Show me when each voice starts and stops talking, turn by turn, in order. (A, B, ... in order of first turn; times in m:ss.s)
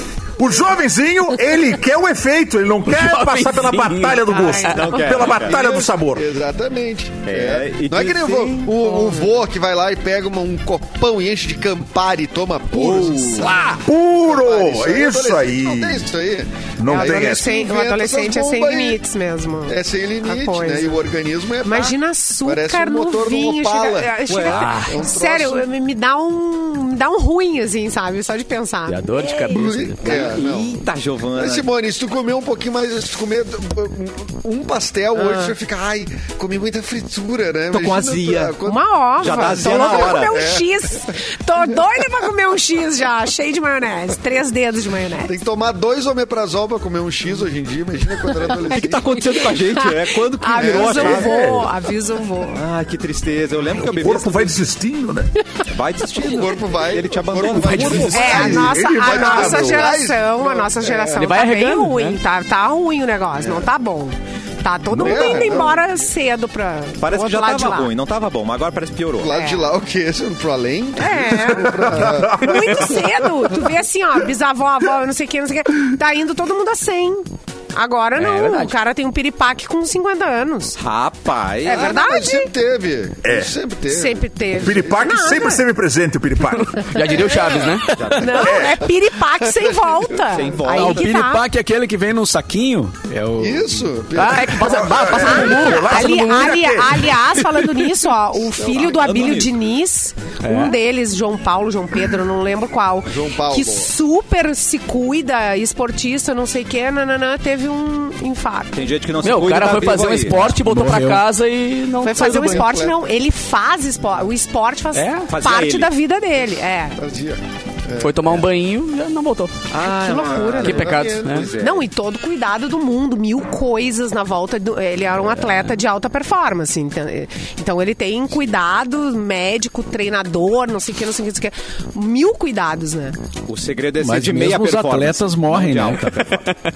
0:00.4-0:06.2 A
0:02.9-0:04.4 B
0:04.3-0:05.3 C
0:04.6-0:05.6 D
0:05.3-0:19.0 E
0:07.2-0:08.7 D
0:08.8-0:09.3 C
0:12.7-0:13.7 D
0:13.4-0:13.8 C
0:13.8-0:16.0 A
0:16.8-0:17.6 A
0:16.9-0:21.1 C
0:19.6-0:25.7 E
0:21.6-0:29.7 C
0:24.3-0:24.7 D
0:24.5-0:24.9 B
0:28.9-0:30.4 B
0:29.5-0:40.7 E
0:30.0-0:31.7 D
0:35.2-0:35.5 C
0:37.7-0:38.6 D
0:38.6-0:45.4 C
0:39.2-0:40.5 D
0:45.2-0:49.0 E
0:48.4-0:52.6 C
0:48.6-0:51.7 D
0:50.6-0:51.4 E
0:50.9-0:51.7 A
0:52.5-0:54.6 D
0:53.9-0:55.3 A
0:55.6-0:58.5 D
0:56.2-1:01.3 E
0:57.5-0:58.5 B
0:58.1-1:07.9 C
0:58.1-0:59.8 A
1:01.2-1:02.2 B
1:04.9-1:05.5 A
1:04.9-1:05.9 E
1:07.0-1:09.3 D
1:09.2-1:12.8 E
1:09.3-1:09.7 C
1:11.0-1:20.8 C
1:11.7-1:12.9 A
1:18.2-1:18.7 B
1:20.8-1:21.9 D
1:21.6-1:22.5 C
1:21.6-1:24.2 E
1:23.2-1:23.5 A
1:23.9-1:25.6 C
1:24.6-1:26.9 A
1:26.8-1:27.9 B
1:26.9-1:31.5 C
1:27.9-1:28.5 D
1:28.3-1:28.9 A
1:29.4-1:30.6 E
1:30.3-1:31.1 D
1:30.7-1:33.8 F
1:33.4-1:34.8 E
1:34.1-1:36.4 B
1:34.5-1:37.1 A
1:35.2-1:48.9 C
1:38.6-1:39.6 D
1:40.4-1:40.8 B
1:43.1-1:43.9 E
1:48.7-1:50.5 D
1:49.2-1:52.7 B
1:50.5-1:51.2 F
1:52.0-1:57.0 C
1:52.2-1:53.0 E
1:54.9-1:55.3 B
1:55.3-1:55.9 D
1:57.0-1:58.4 E
1:58.0-1:59.5 B
1:59.7-2:01.9 D
1:59.7-2:13.2 C
1:59.7-2:01.7 E
2:00.6-2:01.5 B
2:05.3-2:05.6 B
2:13.5-2:16.5 D
2:14.0-2:16.3 F